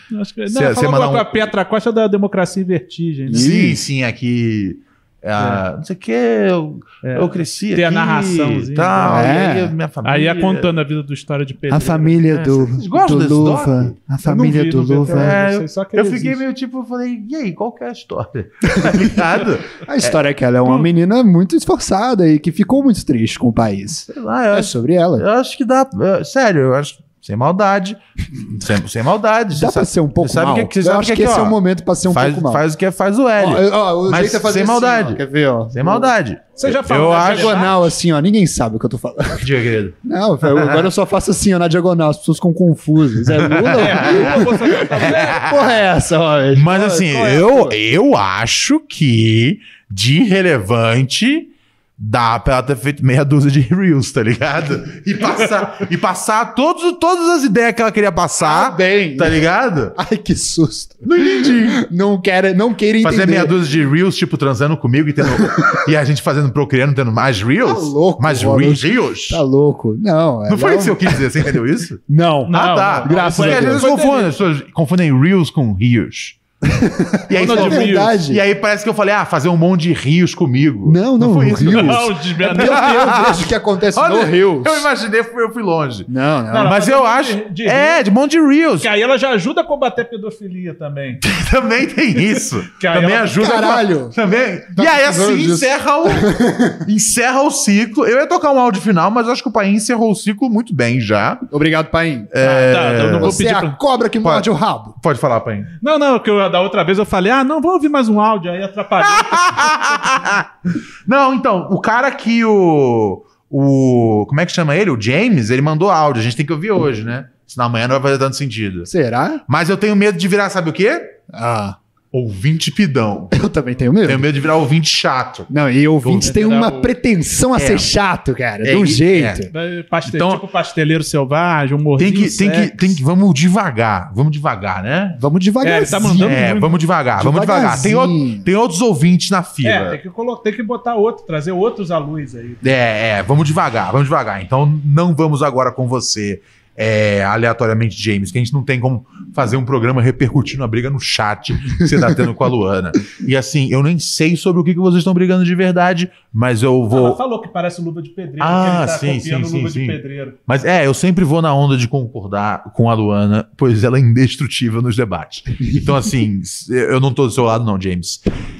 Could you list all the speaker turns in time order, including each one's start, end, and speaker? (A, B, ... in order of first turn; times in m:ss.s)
0:00.1-0:03.5 A
0:00.5-0:01.4 B
0:03.3-0:03.8 C
0:03.3-0:10.7 B
0:05.4-0:05.6 A
0:07.0-0:09.3 A
0:09.0-0:09.7 C
0:10.0-0:12.2 A
0:11.7-0:15.3 C
0:12.3-0:14.0 B
0:14.2-0:16.4 A
0:15.1-0:20.2 B
0:19.8-0:25.2 C
0:24.1-0:35.2 B
0:29.5-0:32.6 C
0:33.4-0:36.1 C
0:35.7-0:37.6 B
0:36.6-0:37.9 A
0:37.1-0:39.5 C
0:39.4-0:40.9 B
0:40.0-0:47.0 C
0:43.2-0:45.8 B
0:43.8-0:45.4 A
0:46.5-1:00.0 B
0:46.9-0:47.6 A
0:58.4-0:59.4 C
0:59.9-1:03.5 C
1:01.0-1:01.8 B
1:03.0-1:09.4 B
1:07.6-1:11.3 C
1:10.5-1:16.4 B
1:12.1-1:13.9 C
1:12.5-1:14.3 A
1:16.7-1:18.4 C
1:17.3-1:28.9 B
1:17.4-1:18.1 A
1:20.8-1:24.8 C
1:21.7-1:23.2 A
1:26.1-1:26.7 C
1:26.5-1:28.0 A
1:28.8-1:31.2 A
1:31.2-1:41.5 B
1:32.8-1:33.4 A
1:33.3-1:34.1 C
1:34.7-1:36.8 C
1:41.5-1:42.3 C
1:42.3-1:43.4 B
1:42.4-1:43.8 A
1:43.2-1:45.0 C
1:44.2-1:45.7 B
1:45.8-1:50.2 A
1:49.0-1:50.5 B
1:51.0-1:58.9 B
1:58.9-1:59.4 C
1:59.5-2:01.1 B
2:01.3-2:01.8 C
2:02.1-2:03.4 B
2:03.3-2:04.3 C
2:04.0-2:05.5 B
2:05.5-2:09.5 C
2:06.0-2:06.3 B
2:06.2-2:06.9 A
2:07.5-2:07.9 B
2:08.6-2:09.5 B
2:09.5-2:13.0 A
2:10.0-2:10.4 B
2:12.0-2:15.2 B
2:15.2-2:16.4 C
2:15.6-2:16.8 A
2:16.0-2:20.0 B
2:17.2-2:18.4 C
2:19.6-2:22.6 A
2:22.6-2:37.2 B
2:36.9-2:40.4 A
2:38.4-2:48.2 B